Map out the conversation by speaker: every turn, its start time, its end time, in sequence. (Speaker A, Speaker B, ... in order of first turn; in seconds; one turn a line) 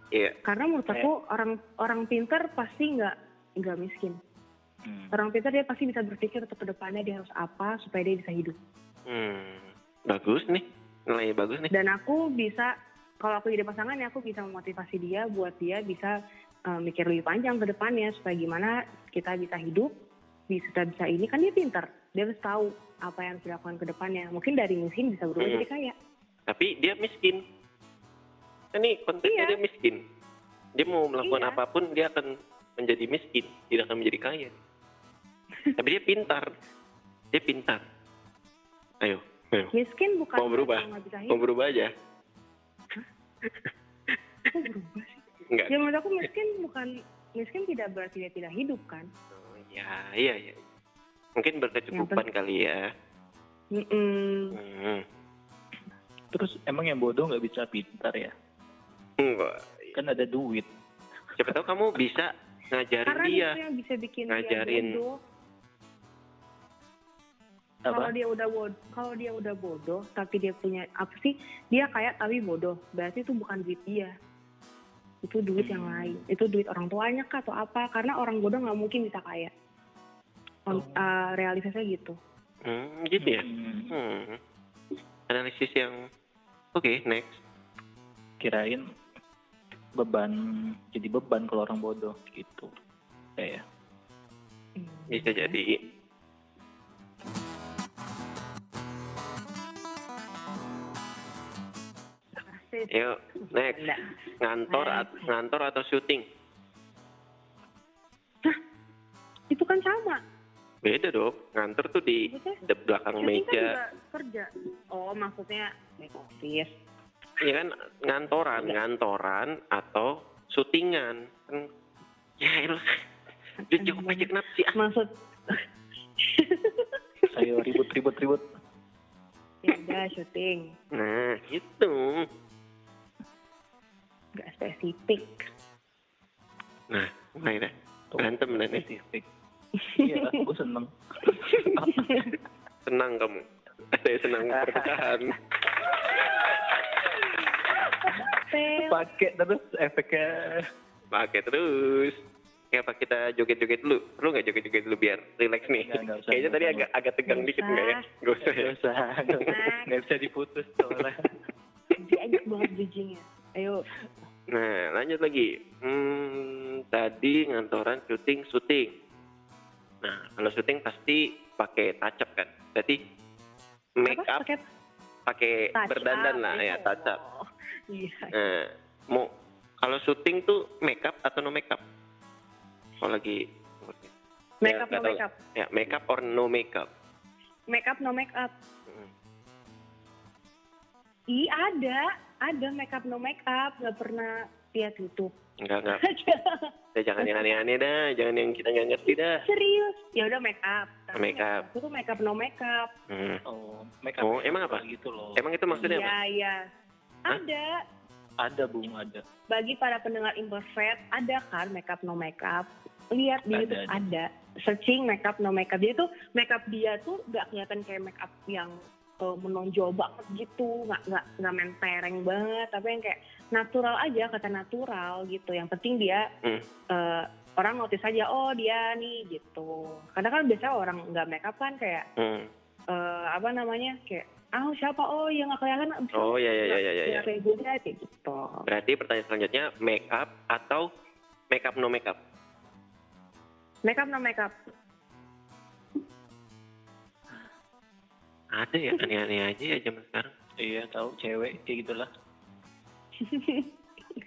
Speaker A: 0.4-4.2
Speaker B: 4.8-5.1
Speaker A: 5.1-8.6
Speaker C: 9.1-11.7
Speaker A: 11.7-12.7
Speaker A: 13.2-16.1
Speaker A: 16.7-19.9
Speaker A: 20.5-25.9
Speaker C: 25.4-25.6
Speaker C: 26.5-27.4
Speaker C: 28.7-30.0
Speaker A: 29.2-29.6
Speaker C: 30.8-34.5
Speaker A: 31.2-31.6
Speaker C: 35.8-36.5
Speaker C: 37.3-37.8
Speaker C: 39.0-39.7
Speaker A: 39.7-41.4
Speaker C: 40.4-41.9
Speaker A: 44.5-49.1
Speaker C: 49.3-50.6
Speaker C: 51.4-52.9
Speaker A: 51.9-52.2
Speaker A: 53.7-54.5
Speaker C: 54.5-55.0
Speaker B: 56.3-58.3
Speaker C: 59.2-59.9
Speaker B: 59.9-60.7
Speaker C: 61.4-63.6
Speaker A: 63.0-65.2
Speaker C: 64.3-64.9
Speaker B: 67.8-68.1
Speaker A: 67.9-74.1
Speaker A: 75.2-79.5
Speaker B: 75.6-76.1
Speaker A: 80.7-82.1
Speaker B: 80.7-81.1
Speaker C: 82.6-84.4
Speaker B: 83.2-84.0
Speaker C: 85.3-86.0
Speaker C: 86.7-87.3
Speaker B: 88.4-88.8
Speaker B: 90.0-92.7
Speaker B: 93.4-93.6
Speaker A: 94.8-95.6
Speaker C: 95.1-95.8
Speaker A: 102.4-104.1
Speaker C: 102.9-103.8
Speaker C: 104.4-106.2
Speaker A: 104.7-105.3
Speaker A: 109.5-110.2
Speaker C: 110.8-113.7
Speaker A: 112.2-112.6
Speaker A: 113.2-116.7
Speaker C: 117.4-121.7
Speaker C: 122.4-122.9
Speaker A: 123.6-125.6
Speaker C: 123.7-124.8
Speaker A: 126.2-126.9
Speaker B: 127.3-128.4
Speaker A: 129.6-130.7
Speaker C: 130.9-132.3
Speaker A: 134.3-135.4
Speaker C: 136.9-138.8
Speaker B: 138.1-139.2
Speaker A: 139.8-140.3
Speaker B: 140.0-142.3
Speaker A: 141.9-142.3
Speaker C: 142.8-145.3
Speaker B: 144.4-145.2
Speaker A: 148.0-149.0
Speaker B: 148.8-150.6
Speaker C: 151.1-152.2
Speaker C: 152.7-158.7
Speaker B: 155.7-156.8
Speaker A: 157.3-158.0
Speaker B: 158.4-161.2
Speaker A: 159.5-159.9
Speaker A: 162.0-163.8
Speaker C: 164.5-168.9
Speaker C: 170.0-173.0
Speaker C: 174.0-174.4
Speaker A: 174.1-174.6
Speaker C: 175.3-177.2
Speaker A: 175.7-178.4
Speaker C: 178.3-179.3
Speaker C: 179.8-181.8
Speaker C: 183.0-184.1
Speaker A: 184.6-185.3
Speaker C: 184.6-186.9
Speaker A: 187.7-188.5
Speaker A: 191.3-195.3
Speaker C: 195.6-196.0
Speaker A: 195.9-196.7
Speaker C: 196.9-199.4
Speaker A: 197.2-197.5
Speaker A: 199.1-202.9
Speaker C: 201.2-201.6
Speaker C: 203.1-203.4
Speaker B: 203.5-206.0
Speaker C: 204.2-204.8
Speaker C: 205.4-206.1
Speaker A: 205.8-206.7
Speaker A: 207.2-207.7
Speaker B: 208.4-209.2
Speaker A: 209.5-226.2
Speaker B: 213.5-214.0
Speaker A: 226.9-232.1
Speaker C: 232.2-232.5
Speaker A: 232.9-238.6
Speaker C: 236.1-237.2
Speaker C: 238.7-240.9
Speaker C: 241.5-242.2
Speaker A: 243.8-244.5
Speaker C: 248.6-250.3
Speaker B: 250.6-252.1
Speaker A: 253.2-253.7